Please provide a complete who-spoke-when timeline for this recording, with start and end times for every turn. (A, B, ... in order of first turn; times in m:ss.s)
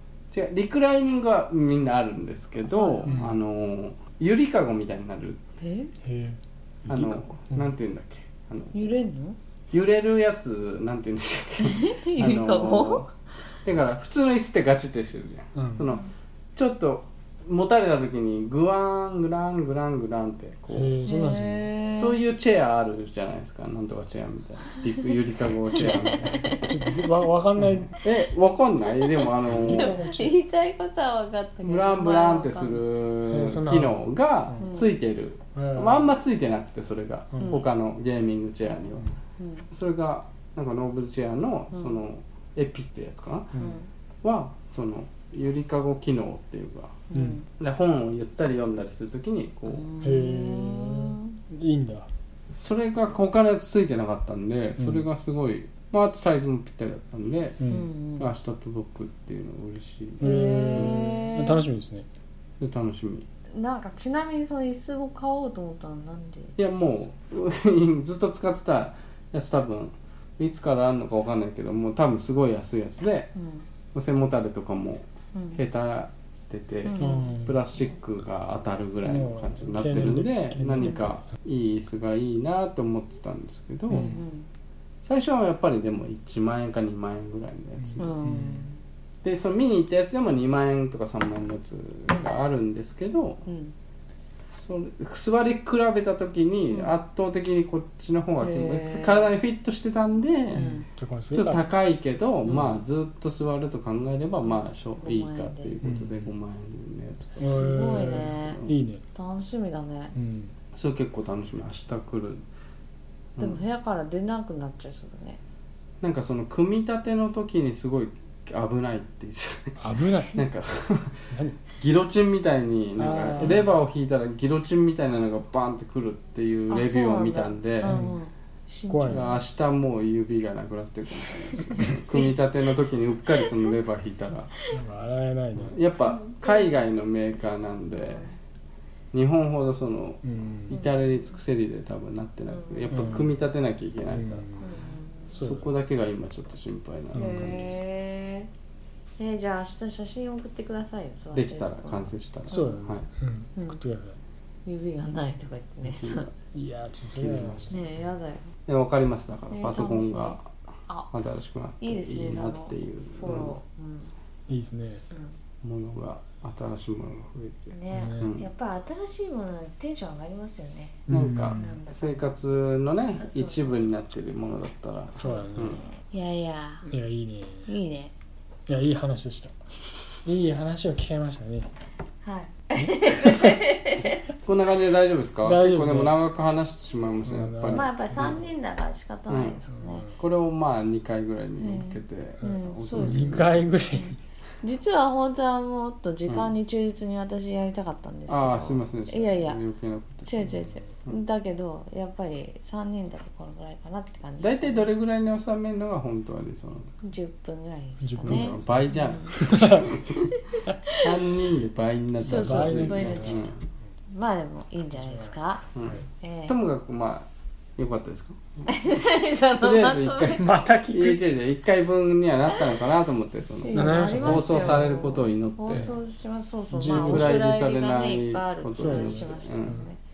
0:00.3-0:05.4 A
0:02.7-0:03.2 B
0:03.0-0:03.4 C
0:05.6-0:05.9 B
0:06.0-0:07.7 C
0:06.9-0:08.9 A
0:08.7-0:09.4 B
0:09.7-0:13.1 A
0:11.6-0:13.1 B
0:13.6-0:21.0 A
0:15.5-0:15.9 C
0:20.7-0:21.7 C
0:21.0-0:22.2 B
0:21.9-0:26.7 A
0:24.8-0:25.1 B
0:25.7-0:26.8 B
0:25.7-0:28.0 C
0:27.6-0:30.0 A
0:28.9-0:32.8 B
0:29.4-0:30.3 C
0:31.6-0:39.1 A
0:33.3-0:34.6 C
0:34.6-0:34.9 B
0:35.5-0:36.1 C
0:37.3-0:37.6 C
0:39.4-0:39.7 B
0:39.7-0:43.5 A
0:41.7-0:42.0 B
0:43.6-0:43.9 B
0:44.2-0:47.0 A
0:47.1-0:47.4 B
0:47.1-0:47.4 C
0:47.6-0:49.8 A
0:49.7-0:51.4 B
0:50.0-0:52.1 C
0:52.5-0:57.6 A
0:54.8-0:55.0 C
0:57.6-0:57.9 C
0:57.7-0:58.3 B
0:58.2-1:01.1 A
1:00.2-1:02.0 C
1:00.2-1:01.6 B
1:02.6-1:03.2 A
1:03.5-1:06.6 B
1:06.6-1:13.3 A
1:13.3-1:13.7 B
1:13.9-1:24.1 A
1:15.3-1:15.6 B
1:16.8-1:17.3 B
1:17.0-1:17.6 C
1:19.0-1:21.2 C
1:23.9-1:24.2 C
1:23.9-1:24.5 B
1:25.0-1:28.1 A
1:27.8-1:28.7 C
1:28.0-1:28.8 B
1:29.2-1:33.4 A
1:33.5-1:33.7 B
1:34.5-1:40.7 A
1:36.7-1:37.0 B
1:38.4-1:39.4 B
1:40.5-1:41.6 C
1:40.5-1:40.9 B
1:41.3-1:48.8 A
1:42.4-1:42.7 B
1:44.4-1:45.7 B
1:45.8-1:46.3 C
1:47.4-1:49.0 C
1:47.5-1:50.1 B
1:50.1-1:50.5 C
1:50.7-1:52.4 A
1:53.4-1:53.6 A
1:53.4-1:55.4 B
1:56.0-1:59.8 A
1:59.8-2:00.4 C
2:00.3-2:08.0 A
2:01.3-2:01.6 C
2:03.0-2:03.7 C
2:03.1-2:03.6 B
2:06.7-2:09.4 B
2:07.8-2:08.2 C
2:08.9-2:09.3 C
2:09.1-2:14.5 A
2:11.5-2:13.5 B
2:14.7-2:15.8 C
2:15.7-2:18.3 A
2:16.0-2:16.7 B
2:17.9-2:18.3 B
2:19.1-2:24.5 A
2:20.2-2:20.8 C
2:20.7-2:21.0 B
2:22.5-2:23.0 B
2:22.9-2:23.3 C
2:24.1-2:24.7 C
2:24.6-2:25.5 B
2:25.3-2:27.7 A
2:25.3-2:25.7 C
2:27.1-2:27.6 C
2:27.1-2:28.5 B
2:29.2-2:33.0 B
2:31.3-2:33.1 A
2:32.5-2:34.2 C
2:33.6-2:33.8 B
2:34.6-2:36.3 B
2:35.9-2:36.3 A
2:36.5-2:37.7 C
2:37.1-2:38.0 A
2:37.7-2:38.5 B
2:38.6-2:40.5 A
2:39.5-2:41.1 B
2:41.1-2:43.6 A
2:41.8-2:44.1 B
2:44.5-2:45.0 C
2:45.1-2:45.4 B
2:45.6-2:48.5 A
2:47.7-2:52.4 B
2:47.9-2:48.3 C
2:51.1-2:51.8 C
2:51.1-2:55.8 A
2:53.2-2:53.8 B
2:55.1-2:55.8 C
2:55.1-2:56.9 B
2:56.8-2:57.7 C
2:57.7-2:58.1 B
2:58.7-2:59.5 C
3:00.2-3:01.7 C
3:02.2-3:04.2 B
3:02.8-3:03.5 C
3:04.4-3:08.4 A
3:05.4-3:06.1 C
3:07.2-3:08.4 C
3:07.7-3:10.0 B
3:09.3-3:09.6 A
3:09.7-3:10.2 C
3:10.2-3:13.6 A
3:11.6-3:19.6 B
3:12.4-3:14.2 C
3:16.3-3:16.5 A
3:18.3-3:20.5 A
3:20.2-3:24.9 B
3:20.5-3:20.9 C
3:24.4-3:26.9 A
3:27.0-3:30.6 B
3:28.0-3:29.9 C
3:28.2-3:30.2 A
3:31.0-3:33.6 A
3:32.2-3:33.7 C
3:32.2-3:33.6 B
3:34.1-3:35.6 B
3:34.9-3:36.0 C
3:35.7-3:38.6 A
3:36.2-3:36.6 B
3:38.7-3:40.4 B
3:39.6-3:45.9 A
3:40.4-3:41.2 C
3:43.6-3:50.0 B
3:43.7-3:45.0 C
3:45.7-3:46.0 C
3:46.7-3:47.5 C
3:46.8-3:49.8 A
3:48.7-3:49.8 C